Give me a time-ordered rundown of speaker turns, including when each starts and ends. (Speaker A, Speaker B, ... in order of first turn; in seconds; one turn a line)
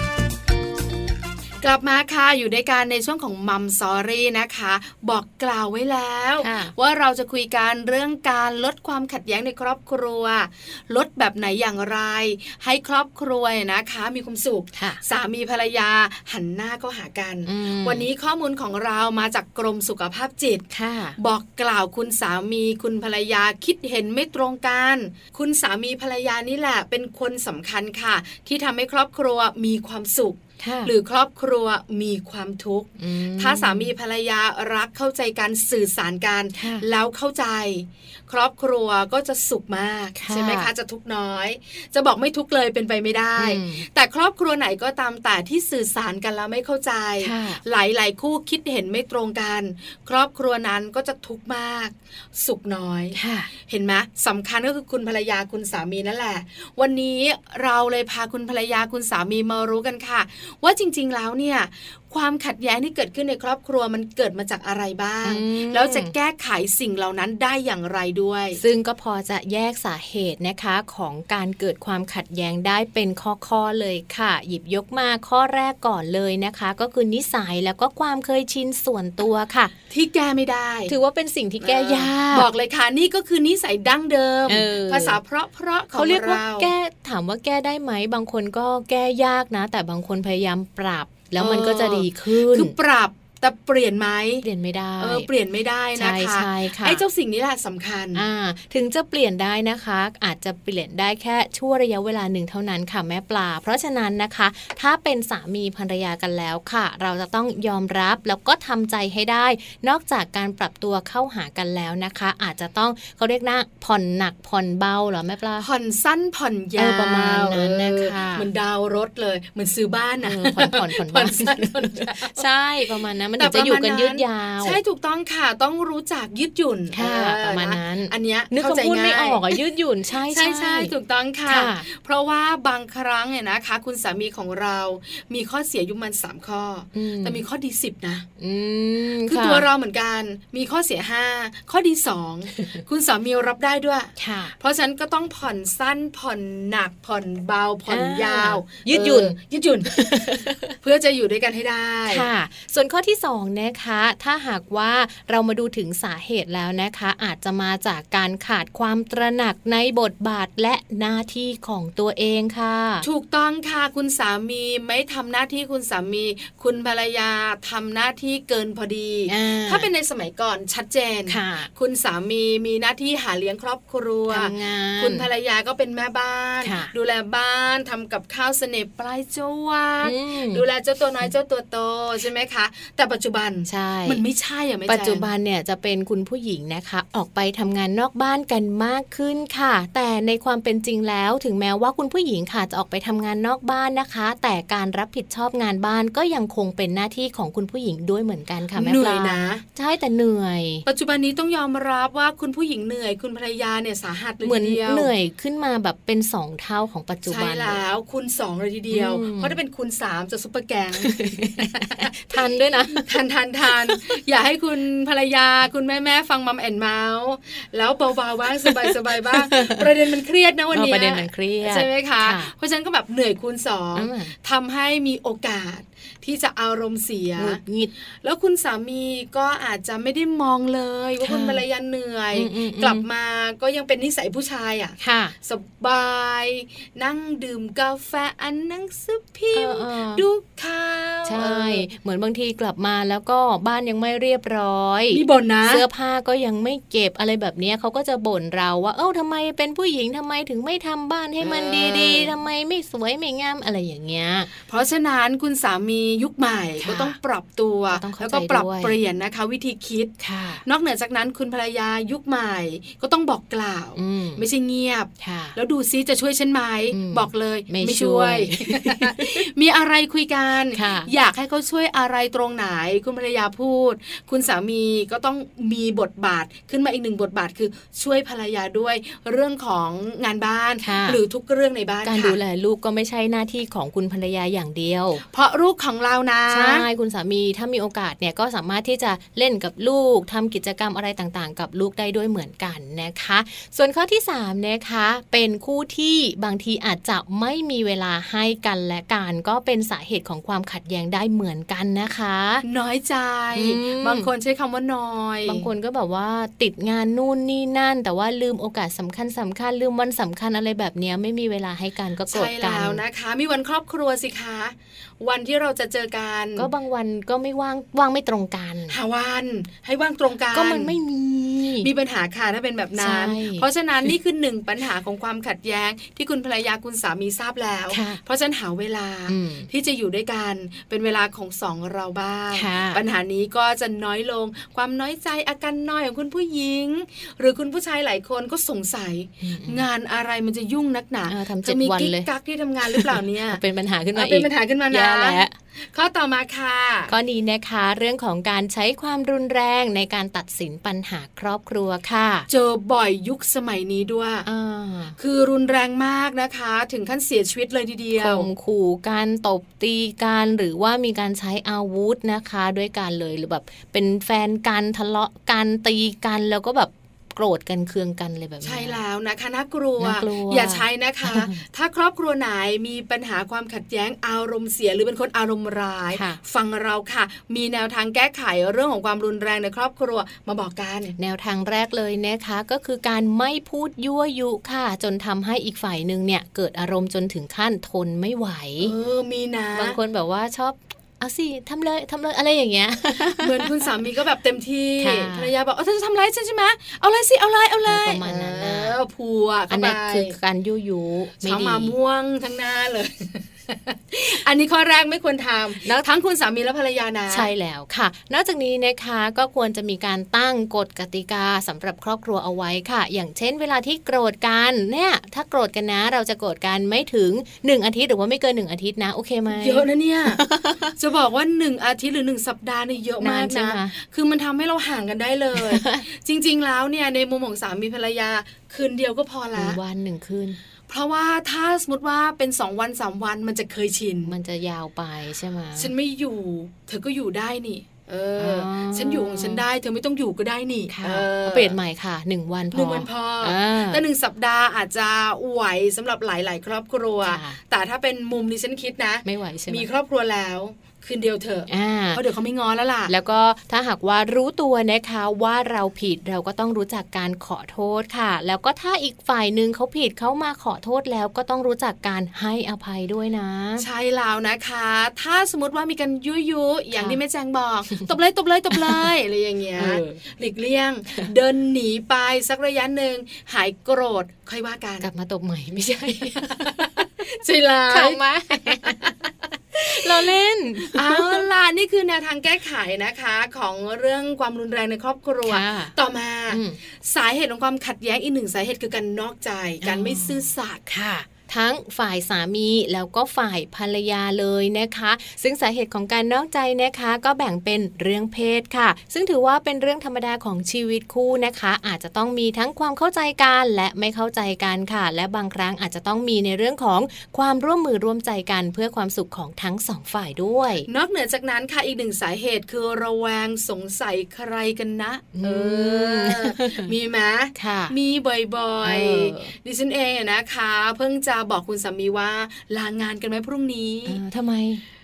Speaker A: 1.6-20.7
Speaker B: 6.4-6.7
Speaker B: 14.7-15.0
Speaker B: 17.4-18.1
Speaker B: 20.7-21.2
Speaker A: 21.2-68.6
Speaker B: 30.6-30.9
Speaker B: 33.0-33.9
Speaker B: 36.5-36.8
Speaker B: 40.2-40.7
Speaker B: 43.4-43.9
Speaker B: 47.2-47.6
Speaker B: 53.1-53.5
Speaker B: 65.2-66.1
Speaker B: 68.6-79.7
Speaker A: 79.9-80.9
Speaker B: 80.9-82.5
Speaker A: 81.6-86.7
Speaker B: 84.5-85.2
Speaker B: 85.9-92.7
Speaker A: 91.4-94.4
Speaker B: 94.4-95.3
Speaker A: 95.0-98.2
Speaker B: 96.0-97.0
Speaker B: 98.1-115.7
Speaker A: 115.6-122.4
Speaker B: 116.8-118.5
Speaker B: 120.2-124.8
Speaker A: 123.4-129.6
Speaker B: 126.9-130.9
Speaker A: 130.3-138.2
Speaker B: 131.5-131.8
Speaker B: 136.9-137.4
Speaker B: 138.4-139.6
Speaker A: 139.3-150.2
Speaker B: 144.2-144.5
Speaker B: 147.9-149.4
Speaker B: 149.9-150.7
Speaker A: 150.8-152.3
Speaker B: 152.1-163.1
Speaker A: 163.0-185.3
Speaker B: 169.3-169.9
Speaker B: 171.3-171.7
Speaker B: 174.3-175.3
Speaker B: 176.6-176.9
Speaker B: 180.0-180.6
Speaker B: 183.7-184.2
Speaker B: 184.9-200.8
Speaker A: 198.7-199.6
Speaker A: 200.8-205.1
Speaker B: 204.4-207.8
Speaker A: 207.3-227.6
Speaker B: 208.9-209.6
Speaker B: 211.0-213.1
Speaker B: 218.6-219.8
Speaker B: 220.7-222.5
Speaker B: 223.9-224.3
Speaker B: 227.4-227.9
Speaker A: 228.2-241.8
Speaker B: 231.2-231.6
Speaker B: 232.3-233.1
Speaker B: 235.0-235.3
Speaker B: 239.5-240.2
Speaker B: 241.2-254.5
Speaker A: 245.1-245.8
Speaker A: 251.4-252.3
Speaker A: 254.6-282.4
Speaker B: 256.8-257.2
Speaker B: 257.9-258.9
Speaker B: 260.2-260.6
Speaker B: 263.9-264.4
Speaker B: 265.2-265.6
Speaker B: 266.9-269.4
Speaker B: 270.7-271.1
Speaker B: 280.8-281.2
Speaker B: 282.0-285.2
Speaker A: 285.3-286.9
Speaker B: 286.5-302.6
Speaker A: 302.6-305.7
Speaker B: 303.5-304.3
Speaker B: 305.4-313.0
Speaker A: 312.3-316.7
Speaker B: 316.6-319.0
Speaker A: 318.9-320.9
Speaker B: 320.5-321.9
Speaker A: 321.8-343.6
Speaker B: 323.0-323.7
Speaker B: 327.9-328.2
Speaker B: 329.3-329.7
Speaker B: 332.5-333.0
Speaker B: 339.4-339.8
Speaker B: 341.3-342.3
Speaker B: 342.9-345.5
Speaker A: 344.1-347.1
Speaker B: 347.1-352.5
Speaker A: 352.5-354.4
Speaker B: 354.4-355.2
Speaker A: 355.2-358.5
Speaker B: 358.2-369.0
Speaker A: 368.6-381.1
Speaker B: 370.0-371.6
Speaker B: 376.1-376.4
Speaker B: 381.2-388.9
Speaker A: 388.8-390.0
Speaker B: 389.8-393.7
Speaker A: 393.4-400.4
Speaker B: 395.0-395.5
Speaker B: 397.9-399.0
Speaker B: 399.7-401.9
Speaker A: 401.4-407.5
Speaker B: 407.3-420.9
Speaker A: 419.5-420.4
Speaker A: 421.0-429.8
Speaker B: 423.2-423.9
Speaker B: 425.6-426.0
Speaker B: 429.6-430.6
Speaker A: 430.9-434.3
Speaker B: 434.2-435.9
Speaker A: 435.8-441.8
Speaker B: 438.4-439.6
Speaker B: 440.9-444.0
Speaker A: 442.7-453.1
Speaker B: 447.2-447.6
Speaker B: 449.2-449.9
Speaker B: 451.7-452.2
Speaker B: 453.1-463.9
Speaker A: 463.8-475.1
Speaker B: 466.9-467.2
Speaker B: 468.7-469.1
Speaker B: 469.8-470.2
Speaker B: 475.0-477.0
Speaker A: 476.4-479.1
Speaker B: 477.9-479.1
Speaker B: 479.7-481.4
Speaker A: 479.8-480.3
Speaker A: 480.9-490.8
Speaker B: 485.4-485.9
Speaker B: 486.5-486.8
Speaker B: 489.8-510.9
Speaker A: 510.9-524.2
Speaker B: 515.4-516.9
Speaker B: 517.5-517.9
Speaker B: 518.8-519.5
Speaker B: 524.1-524.8